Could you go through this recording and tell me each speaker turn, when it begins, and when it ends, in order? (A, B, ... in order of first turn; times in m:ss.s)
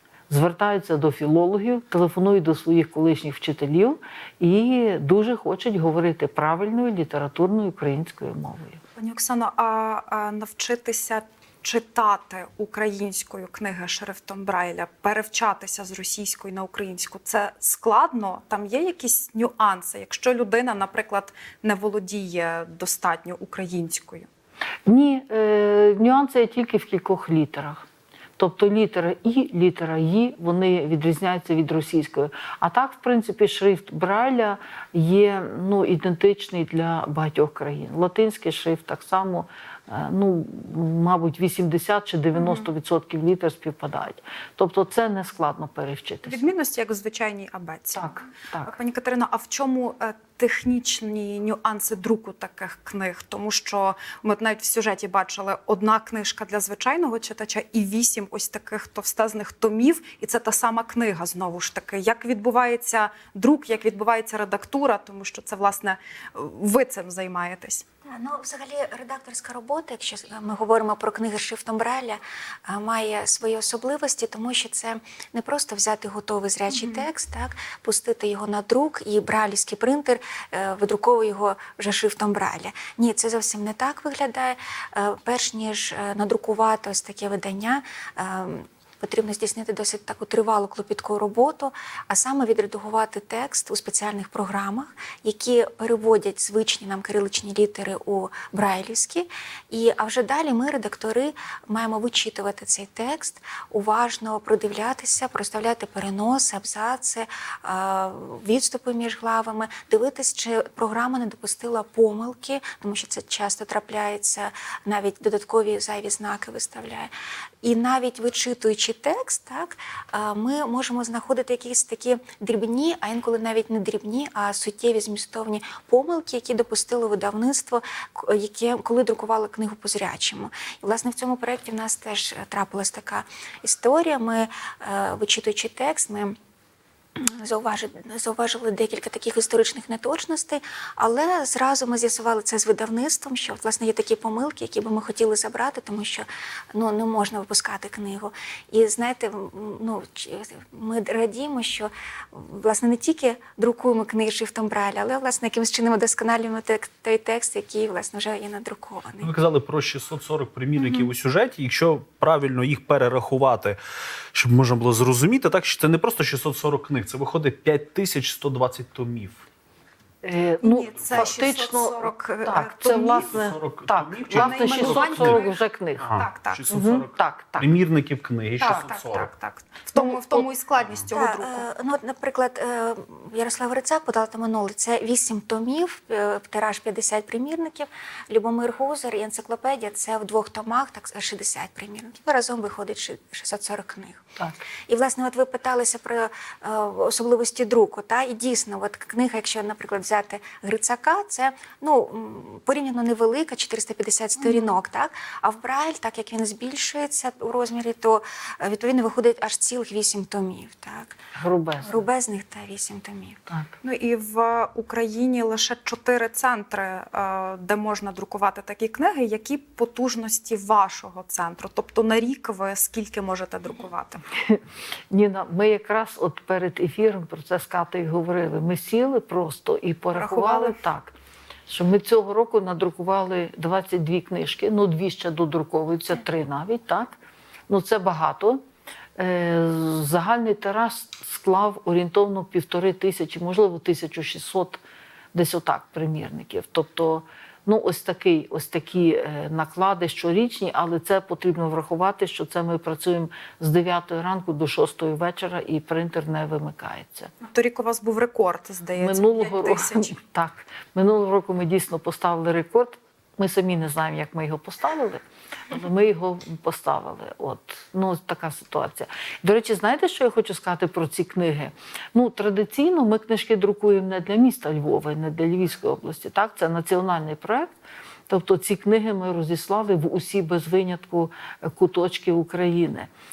0:00.3-0:08.8 A
0:09.0-0:24.3 B
0:24.9-0:27.9 A
0:28.4-0:46.5 A
0:42.4-0:42.6 B
0:46.2-1:07.7 B
0:48.0-0:48.8 A
1:08.1-1:57.1 C
1:16.7-1:17.0 B
1:57.6-2:16.4 C
2:17.2-2:39.3 C
2:39.2-2:43.8 D
2:44.3-2:49.4 D
2:50.2-2:57.7 A
2:50.6-2:53.3 B
2:53.1-2:55.5 D
2:54.4-2:55.3 B
2:56.0-2:59.3 D
2:56.2-2:56.7 B
2:58.6-3:01.6 B
3:00.0-3:00.4 A
3:00.9-3:01.1 D
3:01.1-3:14.2 C
3:14.9-3:31.2 C
3:31.4-3:32.0 A
3:31.8-3:33.4 C
3:33.8-3:44.2 B
3:44.4-3:51.1 A
3:50.1-3:50.8 B
3:51.7-3:57.1 A
3:57.7-3:58.6 A
3:59.2-4:04.8 A
4:05.3-4:17.3 A
4:17.4-4:20.1 B
4:19.0-4:37.7 A
4:38.3-4:43.1 A